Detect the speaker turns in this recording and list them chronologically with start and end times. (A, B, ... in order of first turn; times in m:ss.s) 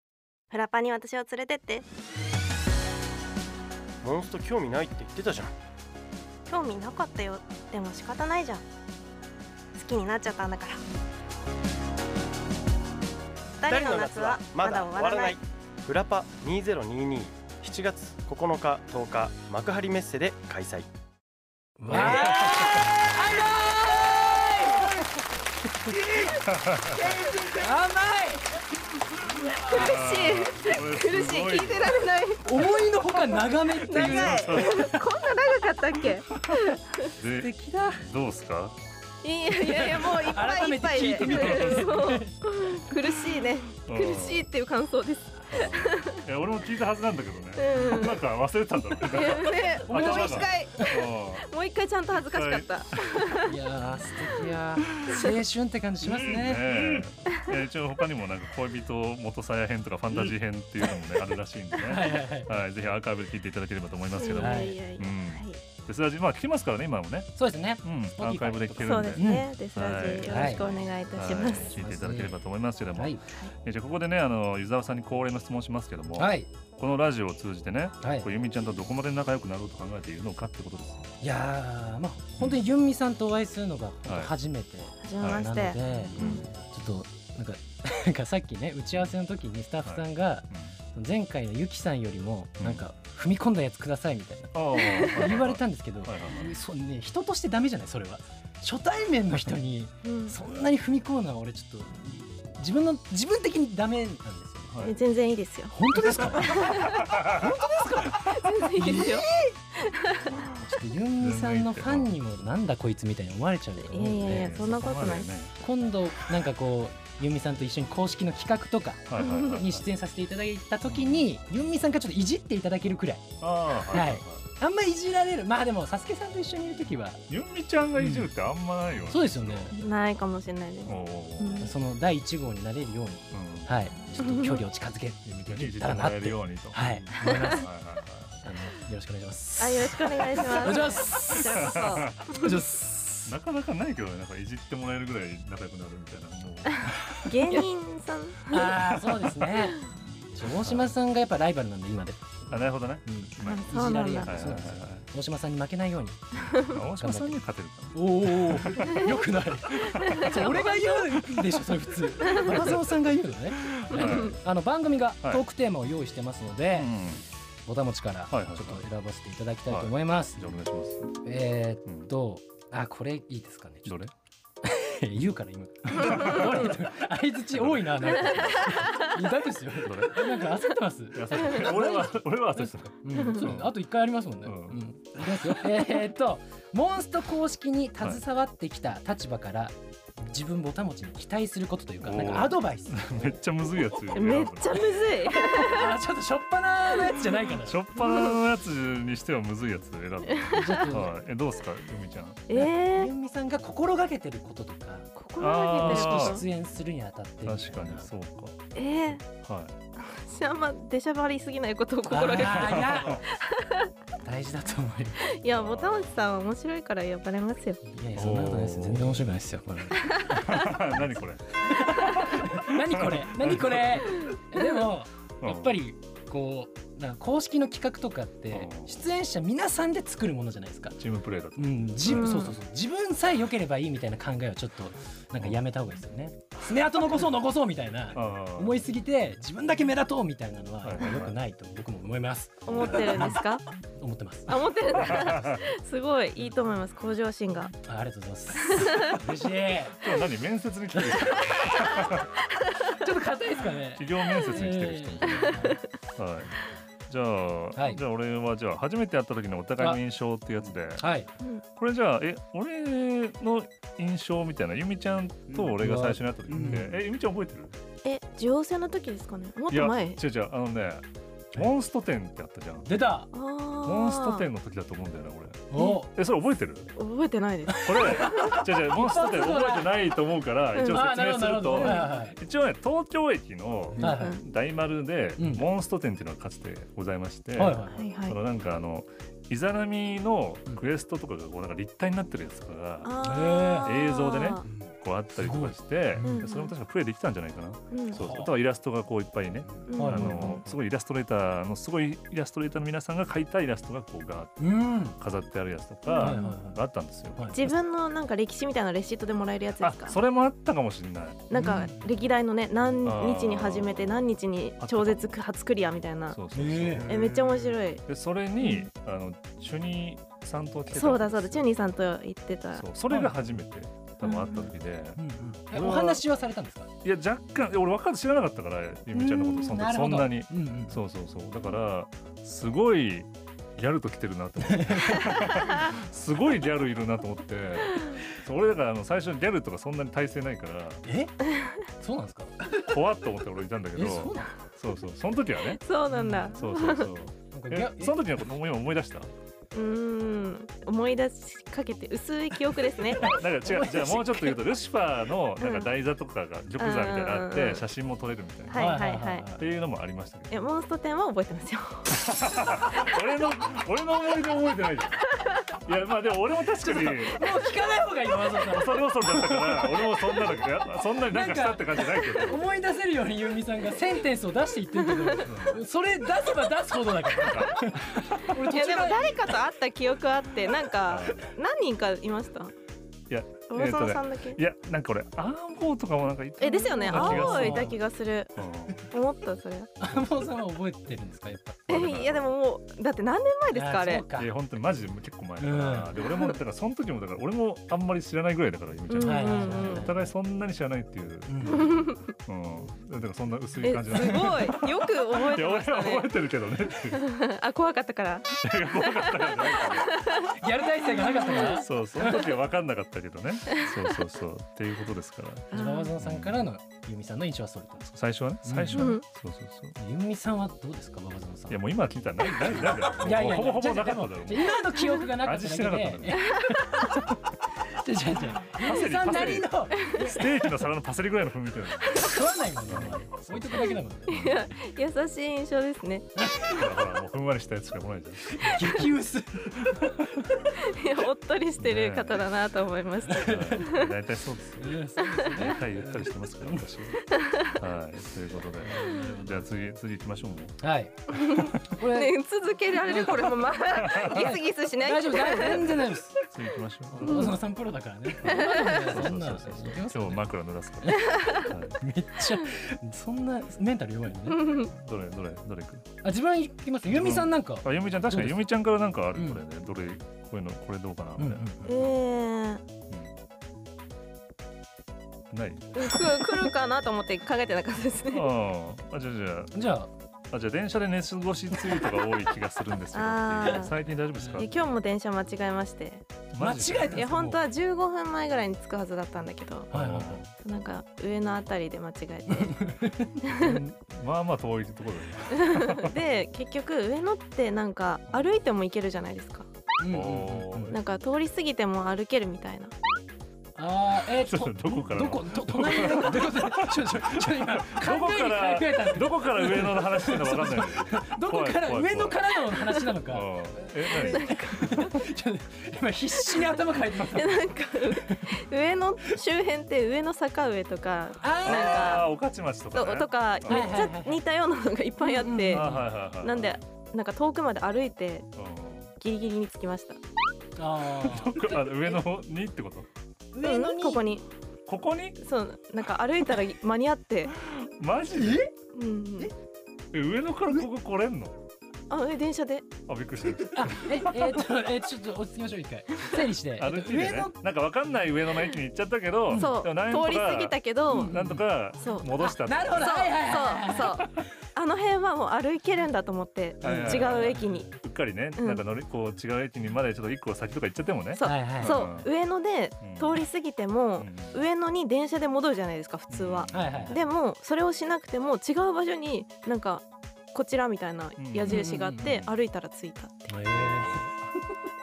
0:00.5-0:01.8 A
0:04.0-0:05.5 B
0:06.4-0:08.6 A
0:09.7-0:10.8 A
0:13.6-0:15.4 A
0:13.7-0:20.9 B
0:21.8-0:26.4 C
0:21.9-0:23.0 D
0:26.5-0:27.1 D
0:26.9-0:28.6 C
0:29.4-0:30.0 C
0:29.6-0:33.2 A
0:29.7-0:32.0 D
0:32.4-0:35.0 C
0:33.8-0:37.1 A
0:33.9-0:35.0 D
0:37.2-0:38.8 D
0:37.4-0:38.0 C
0:39.2-0:46.2 A
0:39.5-0:42.9 C
0:41.1-0:42.1 D
0:43.9-0:44.5 D
0:45.5-0:51.5 D
0:47.6-0:48.2 A
0:47.8-0:48.0 C
0:49.0-0:53.5 A
0:49.9-0:51.1 C
0:52.2-0:52.7 D
0:53.4-0:57.0 C
0:56.0-1:21.1 D
1:01.8-1:02.6 C
1:04.2-1:05.6 A
1:04.3-1:04.8 C
1:07.4-1:09.5 C
1:08.8-1:11.7 A
1:10.2-1:12.4 C
1:12.9-1:13.2 C
1:16.2-1:16.5 C
1:18.0-1:18.3 C
1:21.2-1:44.9 C
1:24.0-1:24.3 D
1:25.0-1:26.4 A
1:25.2-1:26.5 D
1:29.8-1:30.8 D
1:34.5-1:36.5 D
1:34.8-1:35.1 A
1:40.0-1:40.4 A
1:44.7-1:45.0 D
1:44.8-1:47.1 A
1:45.7-1:49.5 C
1:46.9-1:47.5 D
1:48.2-1:50.5 A
1:50.6-1:54.7 C
1:51.2-1:52.1 D
1:53.8-1:55.4 A
1:54.1-1:55.5 D
1:55.6-2:03.3 C
1:59.1-1:59.8 D
2:00.9-2:01.2 D
2:03.4-2:04.4 D
2:03.8-2:07.2 C
2:07.3-2:09.7 D
2:08.0-2:08.3 C
2:09.1-2:09.7 C
2:09.7-2:11.7 A
2:10.8-2:11.7 D
2:11.6-2:17.7 C
2:13.3-2:13.7 D
2:14.2-2:14.6 A
2:15.2-2:18.4 D
2:18.4-2:23.3 C
2:19.6-2:22.5 A
2:20.7-2:22.6 D
2:23.2-2:27.3 D
2:27.2-2:28.7 A
2:28.5-2:29.8 C
2:28.9-2:29.3 D
2:30.3-2:37.4 C
2:30.4-2:30.9 D
2:32.5-2:35.0 D
2:33.4-2:34.3 A
2:36.6-2:39.1 D
2:37.9-2:46.9 C
2:39.7-2:40.6 D
2:40.0-2:41.0 A
2:42.3-2:42.9 D
2:43.6-2:44.4 D
2:43.9-2:44.3 A
2:46.7-2:47.2 D
2:47.6-2:50.4 C
2:48.3-2:48.8 D
2:49.7-2:51.1 D
2:51.2-2:54.0 C
2:53.8-2:54.1 D
2:54.6-3:13.4 C
2:55.9-2:56.6 D
2:57.5-2:58.8 D
2:59.8-3:00.5 D
3:01.1-3:03.7 D
3:04.4-3:04.8 D
3:12.0-3:15.1 D
3:14.1-3:15.9 A
3:15.3-3:17.8 C
3:17.6-3:22.4 D
3:20.3-3:20.9 A
3:20.5-3:21.2 C
3:22.5-3:23.1 A
3:22.5-3:25.1 C
3:25.2-3:26.4 A
3:25.4-3:26.4 D
3:25.8-3:28.1 C
3:27.4-3:28.6 D
3:28.7-3:29.2 A
3:29.1-3:29.7 D
3:30.0-3:33.9 A
3:32.1-3:33.2 C
3:32.3-3:33.2 D
3:34.2-3:35.3 C
3:35.2-3:37.8 A
3:35.5-3:36.2 D
3:37.8-3:51.0 C
3:38.1-3:39.3 D
3:40.0-3:40.4 A
3:40.3-3:44.3 D
3:45.4-3:45.8 D
3:48.5-3:49.0 D
3:51.0-3:52.4 D
3:51.6-4:03.4 C
3:52.0-3:52.6 A
3:58.1-3:58.8 D
4:00.8-4:01.4 D
4:02.7-4:03.6 A
4:02.7-4:03.3 D
4:04.0-4:05.3 C
4:04.5-4:07.7 A
4:05.0-4:05.6 D
4:07.8-4:10.0 C
4:08.7-4:09.1 A
4:10.0-4:12.3 D
4:10.9-4:11.4 C
4:12.6-4:12.9 A
4:12.9-4:15.8 C
4:14.0-4:16.5 D
4:15.5-4:15.8 A
4:17.1-4:21.0 D
4:17.7-4:18.0 C
4:21.0-4:21.3 C
4:21.8-4:27.8 D
4:25.8-4:26.9 C
4:28.0-4:30.2 A
4:29.7-4:32.9 D
4:32.8-4:33.3 C
4:33.3-4:34.5 A
4:33.8-4:36.9 D
4:35.7-4:36.1 C
4:35.7-4:36.0 A
4:37.0-4:38.6 A
4:37.7-4:40.0 C
4:37.8-4:53.1 D
4:40.7-4:41.0 A
4:40.8-4:42.4 C
4:41.7-4:42.1 A
4:44.0-4:44.4 C
4:44.0-4:44.4 A
4:45.4-4:45.6 C
4:47.6-4:48.0 C
4:47.9-4:48.4 A
4:53.0-4:54.6 A
4:53.2-4:53.9 C
4:53.8-5:07.7 D
4:55.3-4:56.4 C
4:56.2-4:56.7 A
4:57.9-4:58.2 A
4:58.1-4:58.5 C
4:59.9-5:00.6 A
4:59.9-5:00.7 C
5:04.6-5:05.2 C
5:06.0-5:06.6 A
5:06.2-5:06.8 C
5:07.3-5:07.6 C
5:07.5-5:10.2 A
5:09.8-5:11.5 D
5:11.5-5:16.4 A
5:11.5-5:12.0 C
5:13.0-5:15.4 D
5:16.3-5:17.1 D
5:16.5-5:17.2 C
5:17.1-5:18.0 A
5:18.0-5:21.6 D
5:18.6-5:18.9 A
5:20.9-5:22.8 A
5:22.8-5:26.2 D
5:23.1-5:23.4 C
5:24.2-5:24.7 A
5:25.2-5:26.9 C
5:27.0-5:41.0 D
5:29.1-5:31.0 C
5:34.6-5:35.6 C
5:41.0-5:41.3 C
5:41.5-5:41.8 A
5:42.0-5:42.8 C
5:42.7-5:45.8 D
5:43.9-5:44.5 C
5:45.8-5:47.1 A
5:46.1-5:46.5 C
5:46.5-5:49.3 D
5:47.5-5:48.3 C
5:49.7-5:53.4 A
5:53.1-5:54.6 C
5:53.2-5:59.0 D
5:55.6-5:55.9 A
5:56.8-5:57.8 A
5:58.7-5:59.5 A
5:58.7-5:59.7 C
5:59.6-6:00.6 D
6:00.5-6:02.1 A
6:02.1-6:05.2 D
6:05.4-6:05.6 A
6:05.8-6:07.5 D
6:06.8-6:10.4 C
6:08.5-6:12.6 D
6:11.3-6:19.5 C
6:15.0-6:15.4 A
6:15.4-6:15.8 D
6:17.3-6:18.6 D
6:18.6-6:22.7 A
6:21.1-6:21.4 D
6:23.3-6:27.9 D
6:23.7-6:24.6 A
6:26.6-6:28.5 A
6:27.0-6:28.0 C
6:28.6-6:29.0 D
6:29.0-6:29.9 A
6:30.0-6:32.1 C
6:31.9-6:32.4 D
6:31.9-6:34.2 A
6:33.7-6:34.5 C
6:34.4-6:47.2 D
6:35.6-6:36.2 C
6:39.1-6:40.1 A
6:39.2-6:40.3 C
6:41.5-6:41.8 C
6:41.7-6:42.3 A
6:43.8-6:46.3 A
6:44.1-6:44.7 C
6:47.1-6:50.6 A
6:48.6-6:50.2 D
6:50.5-6:52.5 C
6:51.2-6:51.8 A
6:51.5-6:56.6 D
6:55.7-6:58.0 C
6:55.7-6:56.1 A
6:58.0-6:59.9 D
6:58.6-6:59.2 C
6:58.9-6:59.2 A
7:00.0-7:01.8 C
7:01.7-7:06.4 D
7:02.5-7:10.8 C
7:06.5-7:06.8 A
7:08.8-7:12.3 D
7:12.1-7:14.3 C
7:12.8-7:14.7 D
7:14.3-7:16.3 A
7:16.4-7:16.9 C
7:16.7-7:19.1 D
7:18.5-7:20.6 C
7:19.8-7:20.1 D
7:20.8-7:24.1 A
7:21.8-7:22.4 D
7:23.3-7:23.8 C
7:23.4-7:25.0 D
7:24.8-7:27.0 C
7:25.2-7:25.5 A
7:25.5-7:30.8 D
7:27.3-7:27.8 A
7:28.8-7:29.6 C
7:30.8-7:32.3 C
7:31.3-7:35.8 A
7:33.0-7:36.4 C
7:34.0-7:34.5 D
7:35.6-7:37.6 D
7:37.1-7:40.4 C
7:38.4-7:42.0 D
7:38.5-7:39.1 A
7:41.2-7:41.7 A
7:41.9-7:44.6 C
7:44.5-7:44.9 A
7:44.8-7:46.1 D
7:46.2-7:48.6 C
7:47.0-7:52.1 D
7:49.3-7:49.6 C
7:51.4-7:51.9 C
7:51.8-7:52.8 A
7:55.5-7:56.0 D
7:55.9-7:58.5 A
7:58.3-7:59.8 D
7:59.7-8:00.1 C
8:00.5-8:04.8 D
8:03.1-8:03.9 A
8:04.4-8:04.6 C
8:04.5-8:06.2 A
8:06.5-8:07.2 D
8:06.6-8:07.6 C
8:07.0-8:09.9 A
8:09.9-8:10.4 C
8:09.9-8:10.5 D
8:10.6-8:12.8 A
8:12.5-8:13.4 C
8:13.4-8:13.8 A
8:13.5-8:16.1 D
8:15.5-8:19.7 A
8:20.0-8:21.0 C
8:20.1-8:21.0 D
8:20.9-8:22.9 A
8:23.8-8:38.5 C
8:24.4-8:32.4 D
8:33.3-8:34.5 D
8:34.2-8:35.1 A
8:36.5-8:42.3 A
8:41.4-8:42.2 C
8:41.6-8:44.0 D
8:42.9-8:45.9 A
8:43.7-8:44.4 C
8:45.2-8:46.1 C
8:45.7-8:46.8 D
8:46.4-8:48.5 A
8:48.6-8:49.1 D
8:49.2-8:50.2 A
8:50.8-8:52.2 C
8:51.2-8:53.1 D
8:53.5-8:54.3 C
8:53.6-8:54.4 A
8:54.9-8:55.4 D
8:55.4-8:57.5 A
8:57.6-8:58.7 D
8:58.3-8:58.7 C
8:58.9-8:59.5 A
9:00.1-9:01.6 D
9:02.1-9:02.8 A
9:03.1-9:04.7 D
9:03.7-9:07.6 C
9:06.8-9:13.3 D
9:09.5-9:09.8 C
9:09.5-9:11.4 A
9:11.1-9:11.6 C
9:12.0-9:17.9 A
9:12.4-9:14.3 C
9:16.8-9:17.7 C
9:16.8-9:22.3 D
9:18.6-9:18.8 A
9:21.4-9:33.6 A
9:21.4-9:22.1 C
9:23.0-9:23.4 D
9:24.2-9:24.6 D
9:26.3-9:27.2 D
9:26.7-9:27.3 C
9:31.4-9:32.5 D
9:31.6-9:32.4 C
9:33.5-9:34.3 C
9:33.7-9:34.3 D